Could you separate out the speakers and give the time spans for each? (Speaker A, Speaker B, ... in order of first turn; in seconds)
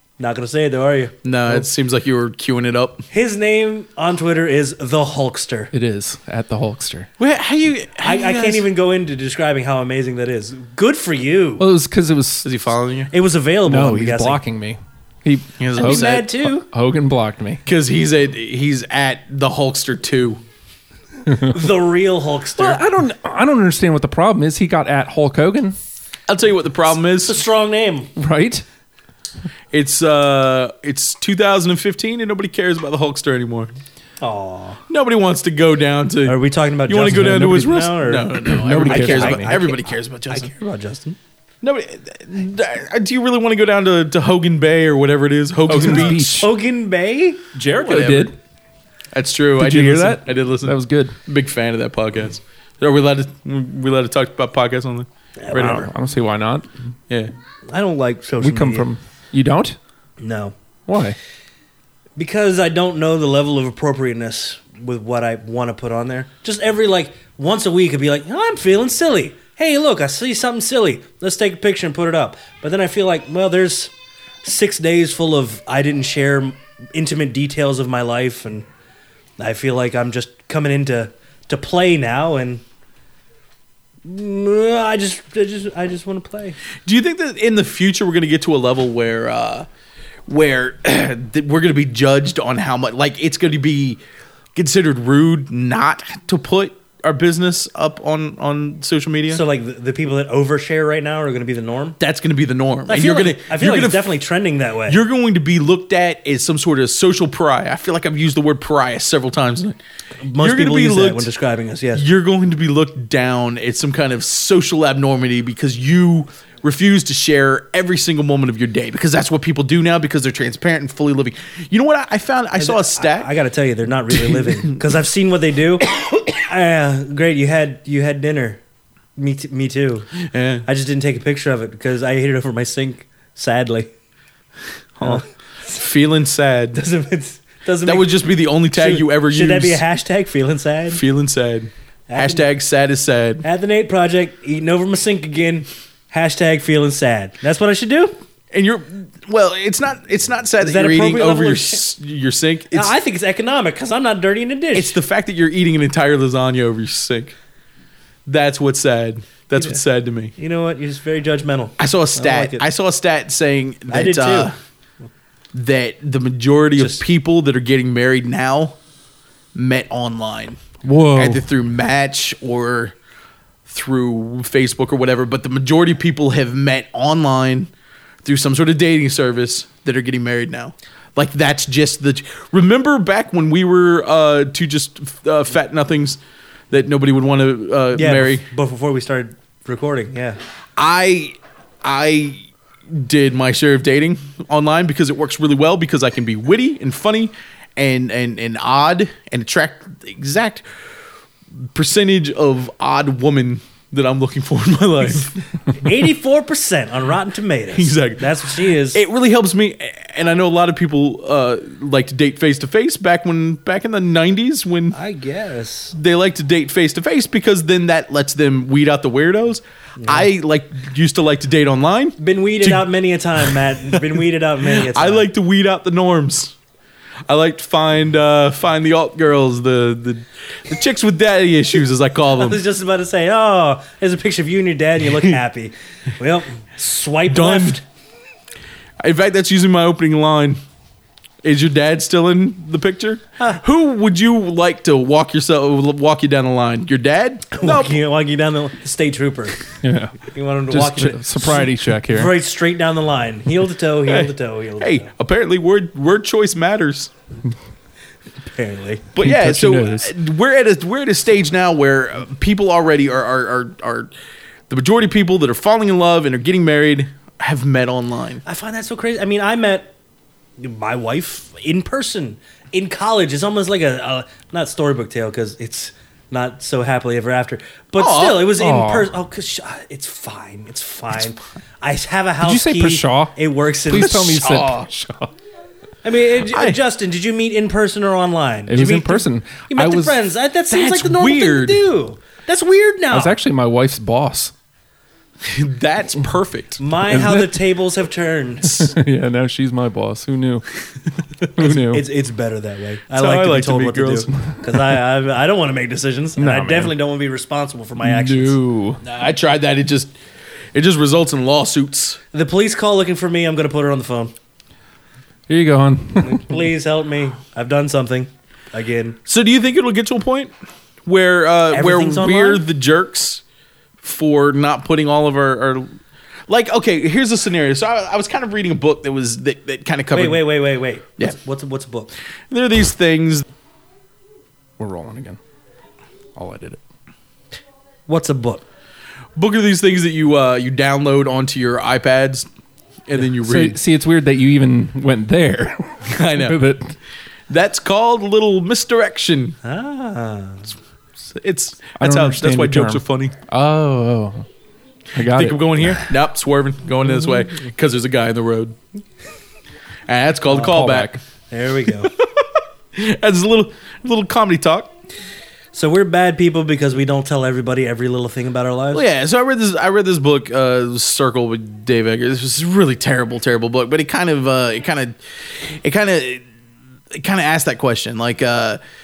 Speaker A: 0.2-1.2, 3.1-5.7, 8.0-11.6, 13.1-14.4, 15.8-16.7, 21.4-22.8, 27.1-28.1, 34.2-34.8, 36.2-41.2, 46.3-47.5, 55.4-55.9, 57.7-58.9, 60.2-60.5, 62.2-73.9, 74.4-78.7, 79.4-82.6, 84.0-86.6, 99.3-102.0, 102.9-105.0, 110.2-112.0, 122.6-128.6, 129.2-130.1, 130.7-133.9, 135.0-135.3, 136.7-141.0, 142.1-142.5, 143.4-148.2, 150.6-151.8, 152.7-155.0, 160.4-162.7, 163.9-164.5, 166.8-167.0, 187.9-190.4, 205.7-209.0, 214.9-216.0, 220.0-220.3, 222.2-225.3, 232.3-237.8, 247.5-249.6, 250.2-255.1, 258.5-259.1, 268.4-269.9, 270.6-284.4, 286.0-293.4, 296.8-298.9, 301.6-308.6, 312.3-314.3, 316.2-319.2, 321.7-322.6, 330.1-332.1, 338.1-338.6, 349.6-350.8, 361.5-362.1, 365.7-369.1
Speaker B: 1.2-3.1, 7.2-8.7, 12.4-13.1, 15.6-16.3, 17.6-20.4, 26.3-27.4, 29.7-33.7, 34.9-40.5, 41.6-46.5, 47.8-48.3, 49.1-55.9, 86.9-89.7, 90.3-94.0, 94.5-99.4, 102.0-104.1, 104.9-109.8, 110.4-111.3, 112.0-123.3, 124.3-124.8, 130.2-130.7, 135.0-136.8, 137.8-139.8, 140.9-143.4, 148.5-152.9, 154.7-157.3, 158.3-160.3, 161.8-164.5, 165.5-168.8, 169.5-170.6, 171.2-172.9, 173.7-177.7, 178.2-188.5, 190.8-200.6, 201.7-205.3, 207.7-215.0, 215.9-226.6, 227.3-232.6, 237.3-237.8, 239.0-240.6, 241.4-248.0, 254.1-257.1, 259.1-264.1, 264.7-268.4, 278.0-278.6, 283.9-284.9, 286.4-286.8, 290.7-291.9, 295.4-296.8, 303.1-304.3, 309.0-310.1, 310.7-312.2, 319.3-320.5, 321.1-323.4, 324.0-325.9, 326.5-330.5, 332.5-333.4, 339.4-342.5, 343.1-343.8, 346.1-346.6, 347.5-349.6, 351.2-353.4, 355.2-358.8, 360.1-361.2, 362.0-364.9, 368.9-376.4, 377.1-378.8
Speaker C: 5.7-7.1, 11.6-12.5, 13.7-17.6, 21.3-21.5, 22.6-25.8, 28.2-28.6, 38.5-39.6, 45.7-46.6, 47.5-48.4, 49.6-51.2, 55.5-56.7, 58.4-59.8, 60.9-61.2, 170.8-171.4, 249.8-252.3, 259.2-260.1, 278.5-279.1, 282.4-285.3, 288.7-290.2, 293.1-294.5, 297.1-297.6, 298.6-300.7, 301.5-302.1, 304.4-304.8, 306.4-306.9, 308.0-309.0, 315.5-316.6, 334.8-335.4, 336.4-336.8, 343.3-347.0, 352.0-354.5, 355.1-356.0, 360.6-361.2